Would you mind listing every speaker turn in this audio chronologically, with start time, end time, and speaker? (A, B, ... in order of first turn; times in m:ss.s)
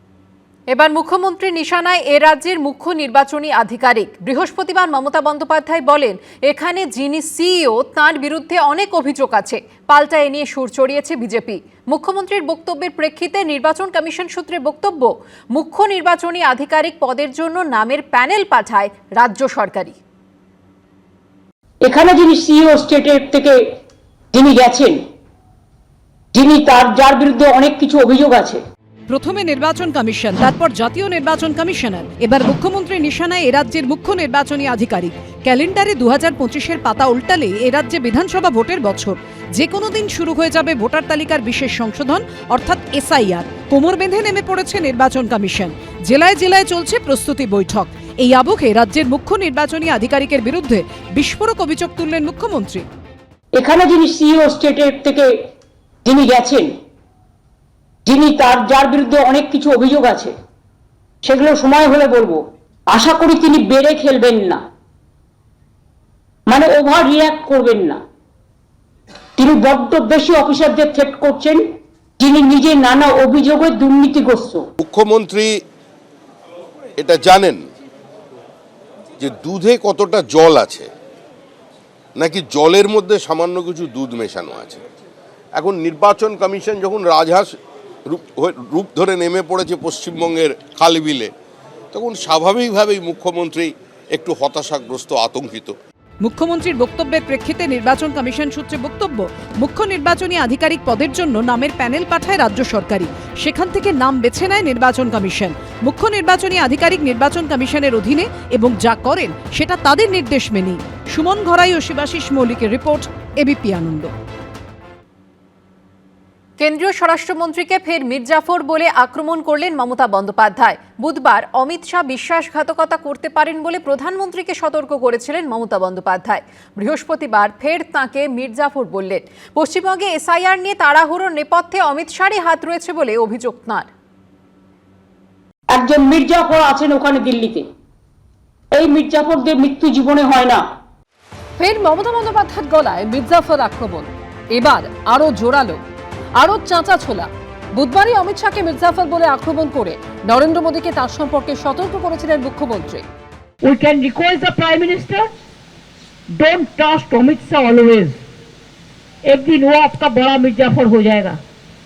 0:00.7-0:20.0 A
0:21.8-0:23.6 B
0:24.4-0:25.0 B
0:26.4-0:28.6 B
0:29.1-0:52.8 C
0:53.6-0:55.3 B
0:56.1-0:56.7 B
0:58.1-1:00.3 B
1:01.2-1:04.6 B
1:06.5-1:08.0 B
1:09.4-1:11.6 B
1:12.2-1:14.7 B
1:14.8-1:15.5 D
1:17.0-1:17.6 D
1:19.2-1:20.9 D
1:22.2-1:24.8 D
1:25.6-1:27.5 D
1:28.1-1:31.3 D
1:31.9-1:35.8 D
1:36.2-1:54.1 C
1:56.6-2:13.9 A
2:15.7-2:17.6 B
2:18.8-2:20.6 B
2:21.6-2:25.8 E
2:26.4-2:33.0 E
2:33.6-2:35.3 F
2:36.4-2:38.2 F
2:39.3-2:41.4 F